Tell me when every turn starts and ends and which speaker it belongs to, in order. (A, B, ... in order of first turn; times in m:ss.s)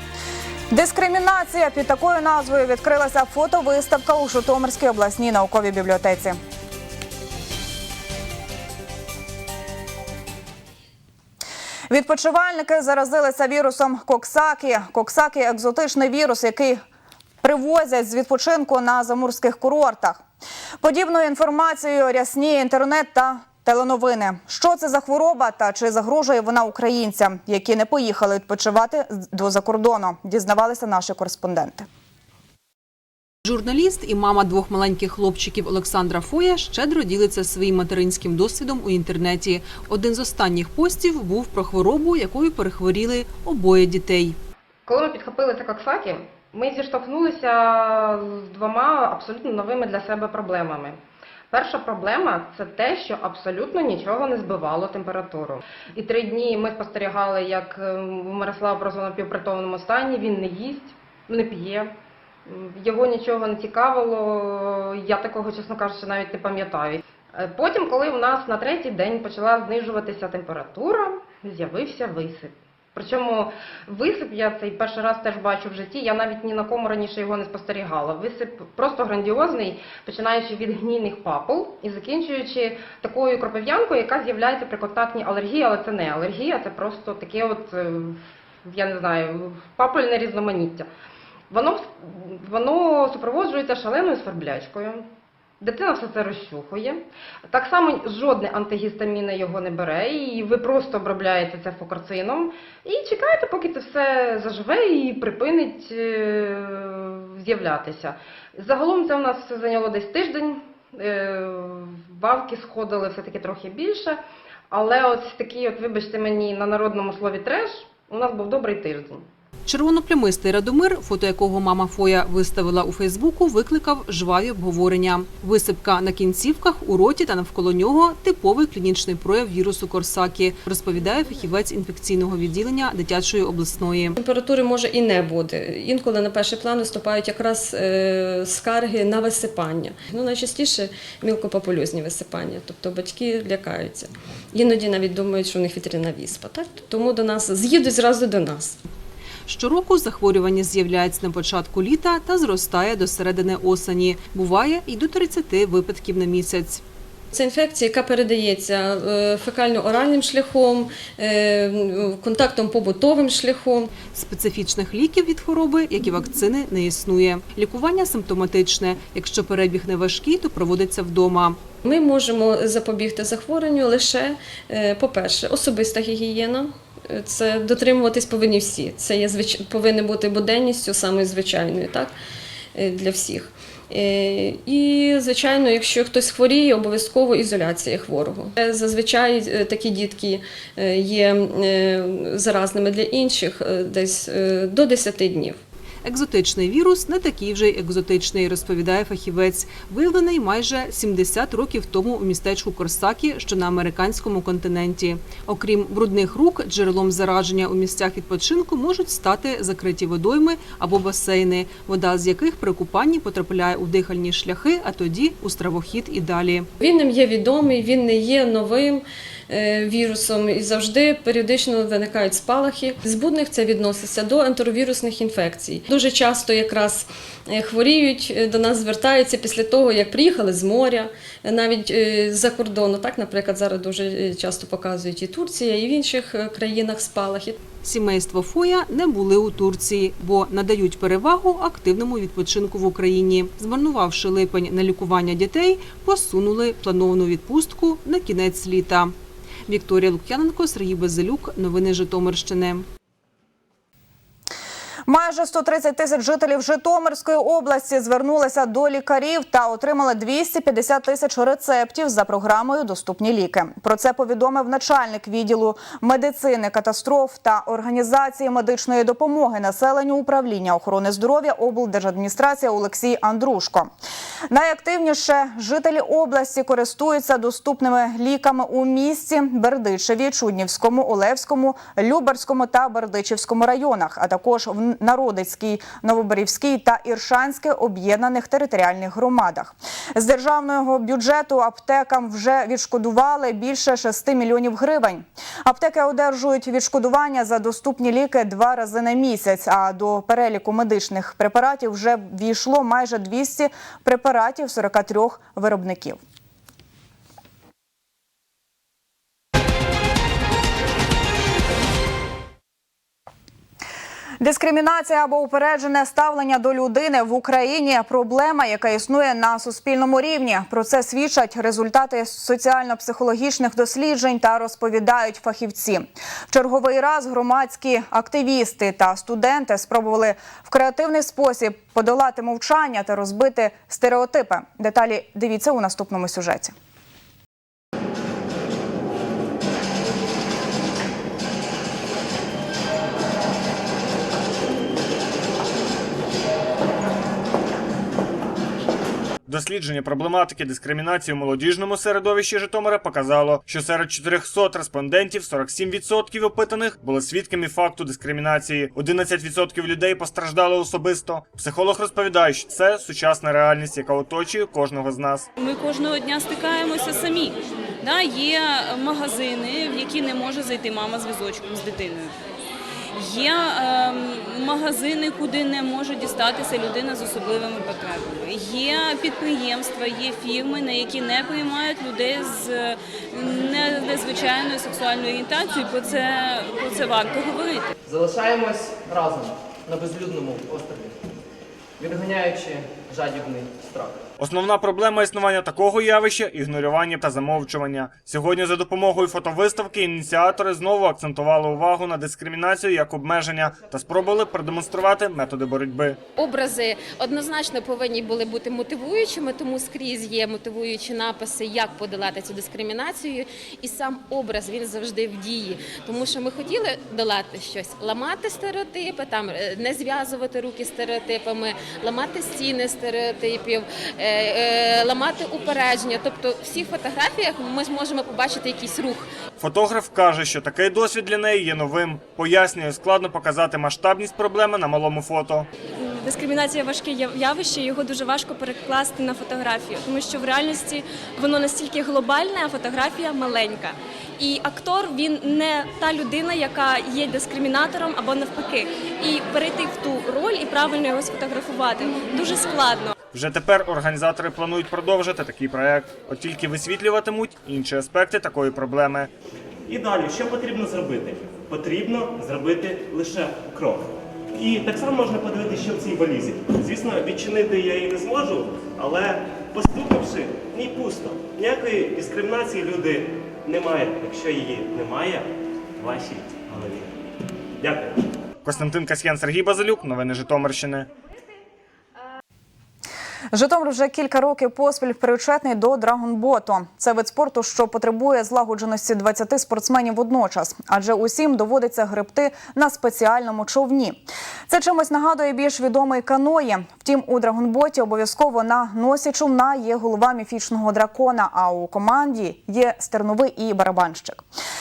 0:00.7-0:06.4 A
0:11.9-0:16.8 A
0:17.4-0:20.2 A
0:20.8-0:31.9 A
0:33.5-0:44.4 B
0:44.9-0:51.0 C
0:51.5-1:01.9 C
1:02.5-1:30.9 C
1:31.5-1:35.1 C
1:35.6-1:59.3 C
1:59.6-2:14.2 B
2:14.2-2:28.8 D
2:29.5-2:36.8 B
2:37.3-2:43.9 D
2:44.1-2:51.6 B
2:51.8-3:02.1 D
3:02.7-3:15.6 D
3:16.0-3:36.7 B
3:36.8-3:57.6 D
3:57.8-4:09.1 B
4:09.7-4:12.9 B
4:15.1-4:33.9 A
4:34.5-5:06.2 A
5:14.4-5:36.7 A
5:49.5-6:05.5 E
6:05.6-6:12.3 F
6:13.2-6:27.9 F
6:28.0-6:31.1 G
6:32.0-6:34.2 G
6:34.4-6:46.2 E
6:46.4-7:09.3 H
7:09.6-7:15.7 E
7:16.0-7:33.1 I
7:33.3-7:39.3 E
7:39.9-7:55.5 J
7:56.0-7:57.1 J
7:57.8-7:58.2 J
7:58.6-8:01.1 E
8:03.5-8:24.4 A